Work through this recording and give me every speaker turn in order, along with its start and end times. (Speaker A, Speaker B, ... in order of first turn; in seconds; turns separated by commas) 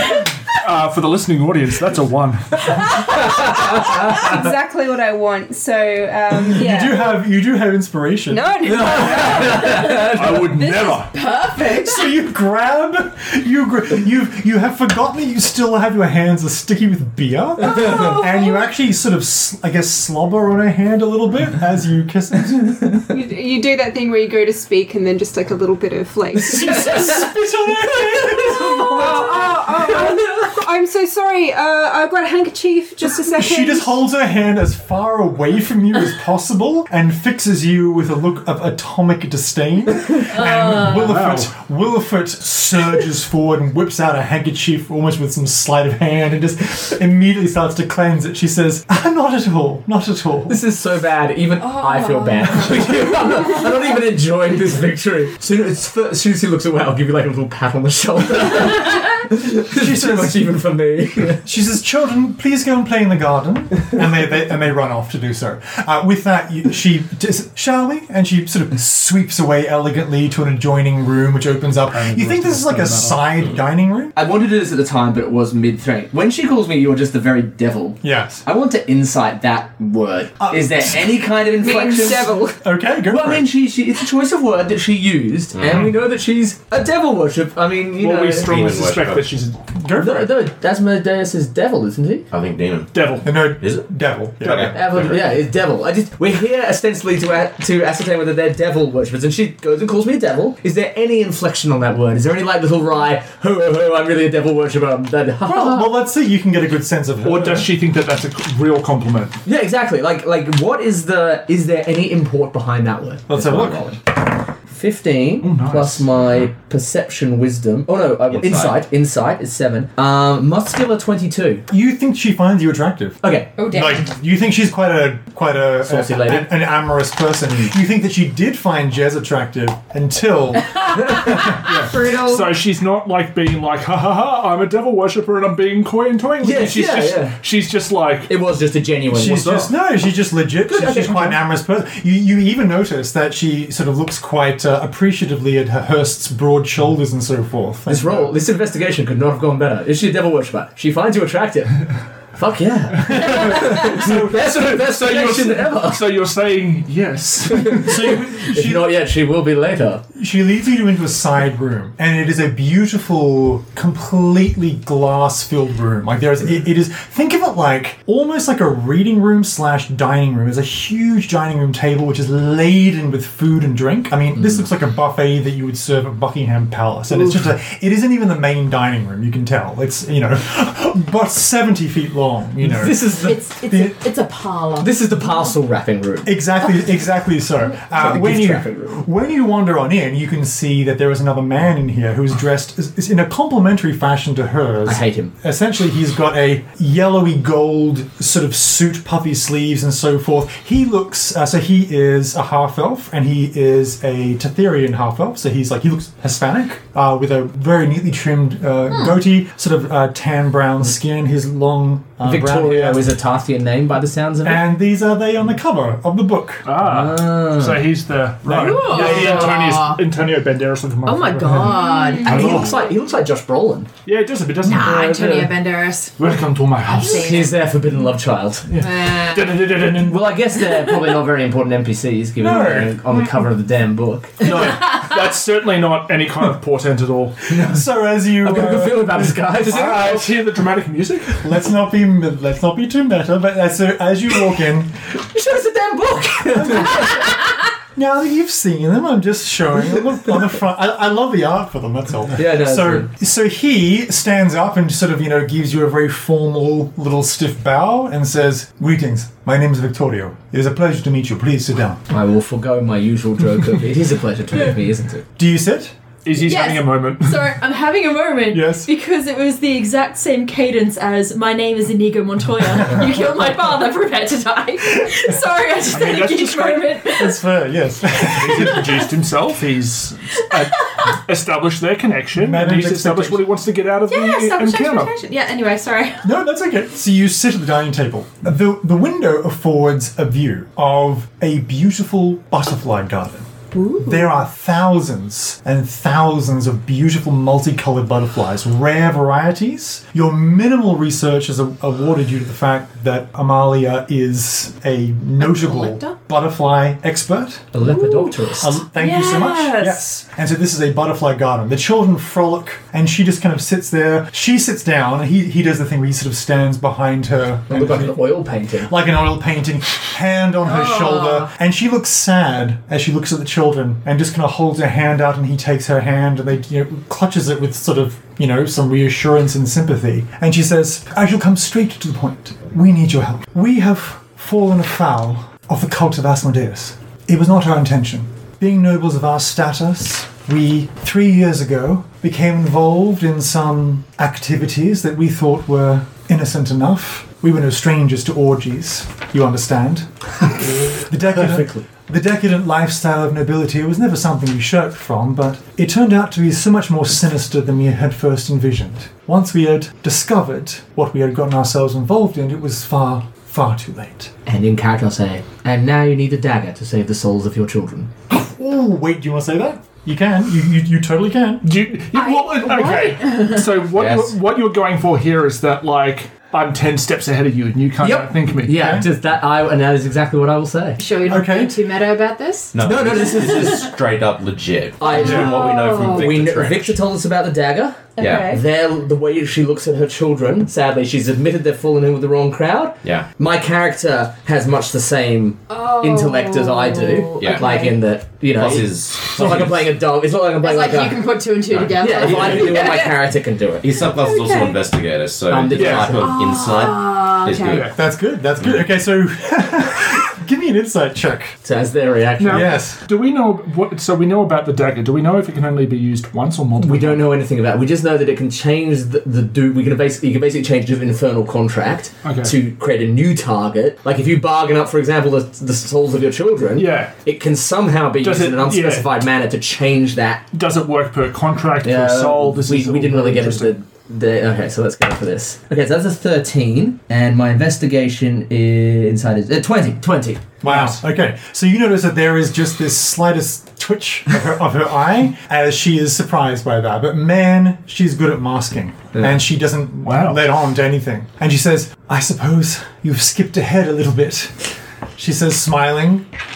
Speaker A: 0.6-3.0, Speaker B: 3.4-4.1, Speaker C: 3.7-7.1, Speaker D: 6.3-8.6, Speaker C: 8.3-9.6, Speaker B: 8.6-10.5, Speaker E: 9.2-12.1, Speaker A: 9.6-11.2, Speaker D: 11.8-23.0, Speaker C: 23.1-27.1, Speaker D: 26.5-29.3, Speaker B: 26.7-27.2, Speaker B: 28.2-29.4, Speaker C: 28.8-34.0, Speaker D: 33.3-50.6, Speaker A: 40.7-41.5, Speaker B: 50.5-61.4, Speaker E: 51.6-53.2, Speaker D: 59.7-60.6, Speaker D: 61.2-74.2, Speaker A: 71.9-73.3, Speaker B: 74.2-82.4, Speaker D: 78.0-78.4, Speaker D: 80.4-81.2, Speaker C: 81.6-82.6, Speaker E: 81.9-82.3, Speaker D: 82.6-83.5, Speaker B: 83.1-88.5, Speaker F: 85.5-85.9, Speaker A: 88.0-89.6, Speaker F: 88.4-89.3, Speaker D: 89.8-90.3, Speaker B: 90.0-92.3, Speaker F: 92.3-92.9, Speaker A: 92.9-93.3, Speaker D: 93.2-94.8, Speaker F: 94.4-95.4, Speaker B: 94.5-105.9, Speaker D: 105.5-107.7, Speaker A: 107.2-109.4, Speaker B: 109.5-121.7, Speaker D: 113.3-113.8, Speaker A: 115.4-116.1, Speaker F: 118.3-118.8, Speaker D: 121.7-131.6, Speaker B: 123.2-123.6, Speaker E: 123.6-124.1, Speaker B: 125.8-126.5, Speaker E: 131.2-132.5, Speaker A: 131.5-138.3, Speaker B: 136.4-137.4, Speaker B: 138.3-139.7, Speaker D: 139.1-148.3, Speaker B: 140.7-141.4, Speaker B: 147.9-151.8, Speaker B: 152.3-156.0, Speaker A: 153.1-158.1, Speaker D: 153.1-154.4, Speaker B: 157.5-160.0, Speaker D: 157.7-158.9, Speaker D: 160.1-183.1, Speaker B: 182.6-183.4, Speaker E: 183.1-184.9, Speaker D: 183.7-184.0, Speaker B: 184.8-186.4, Speaker D: 186.2-213.1, Speaker B: 187.9-189.0, Speaker B: 194.9-195.3, Speaker B: 212.2-214.7, Speaker D: 214.4-216.7, Speaker A: 216.7-222.8, Speaker B: 216.8-217.9, Speaker E: 218.5-220.0, Speaker B: 218.6-219.5, Speaker E: 221.0-222.9, Speaker B: 222.2-223.9, Speaker A: 224.1-225.5, Speaker E: 224.6-226.2, Speaker A: 226.2-227.4, Speaker E: 226.9-227.6, Speaker B: 227.0-228.8, Speaker A: 228.7-230.3, Speaker E: 228.8-229.8, Speaker B: 230.0-234.8, Speaker D: 232.4-233.4, Speaker A: 234.4-237.6, Speaker E: 234.4-235.1, Speaker B: 237.5-237.8, Speaker D: 237.6-240.2, Speaker B: 238.4-240.2, Speaker A: 239.6-241.4, Speaker D: 241.4-244.9, Speaker B: 245.3-247.3, Speaker D: 246.5-247.3, Speaker D: 247.9-262.0, Speaker B: 252.4-253.1, Speaker B: 262.1-265.2, Speaker D: 265.4-265.9, Speaker A: 266.2-267.6, Speaker E: 266.4-277.4, Speaker D: 268.5-268.9, Speaker A: 275.9-277.0, Speaker D: 277.2-279.1, Speaker A: 278.2-285.2, Speaker E: 278.5-279.0, Speaker E: 280.5-281.1, Speaker D: 282.3-283.5, Speaker E: 284.1-286.2, Speaker D: 286.2-307.8, Speaker E: 293.7-294.3, Speaker E: 305.4-306.1, Speaker B: 307.7-308.8, Speaker E: 307.8-310.1, Speaker D: 308.6-318.2, Speaker B: 317.7-318.9, Speaker D: 318.8-350.1, Speaker E: 320.6-321.5, Speaker D: 350.9-364.3, Speaker B: 351.2-351.8, Speaker B: 364.5-368.1, Speaker D: 368.3-371.7, Speaker A: 371.6-379.1, Speaker E: 372.1-373.6, Speaker F: 373.9-374.4, Speaker B: 378.0-381.0, Speaker D: 378.7-379.1, Speaker E: 381.0-382.8, Speaker D: 381.3-381.8, Speaker F: 382.7-387.0, Speaker B: 382.8-383.9, Speaker E: 383.3-383.9, Speaker B: 385.0-401.3, Speaker E: 385.0-386.3, Speaker D: 385.2-385.5, Speaker E: 388.2-388.6, Speaker F: 388.2-388.5, Speaker E: 395.7-398.0, Speaker F: 397.4-397.8, Speaker F: 398.6-399.8, Speaker E: 400.6-403.2, Speaker F: 401.7-402.7, Speaker B: 402.0-404.1, Speaker F: 403.8-407.9, Speaker E: 404.1-404.8, Speaker B: 405.5-406.3, Speaker A: 405.7-406.2, Speaker E: 406.1-407.9, Speaker A: 407.7-407.9, Speaker D: 407.9-411.6, Speaker B: 411.6-412.8, Speaker A: 412.4-417.3, Speaker D: 412.5-413.0, Speaker B: 416.8-430.4, Speaker A: 422.2-422.6, Speaker A: 426.8-427.2, Speaker A: 428.2-429.1, Speaker A: 430.5-433.7, Speaker B: 431.8-440.5, Speaker D: 440.6-454.6, Speaker A: 440.7-441.0, Speaker A: 450.0-450.4, Speaker D: 455.2-456.3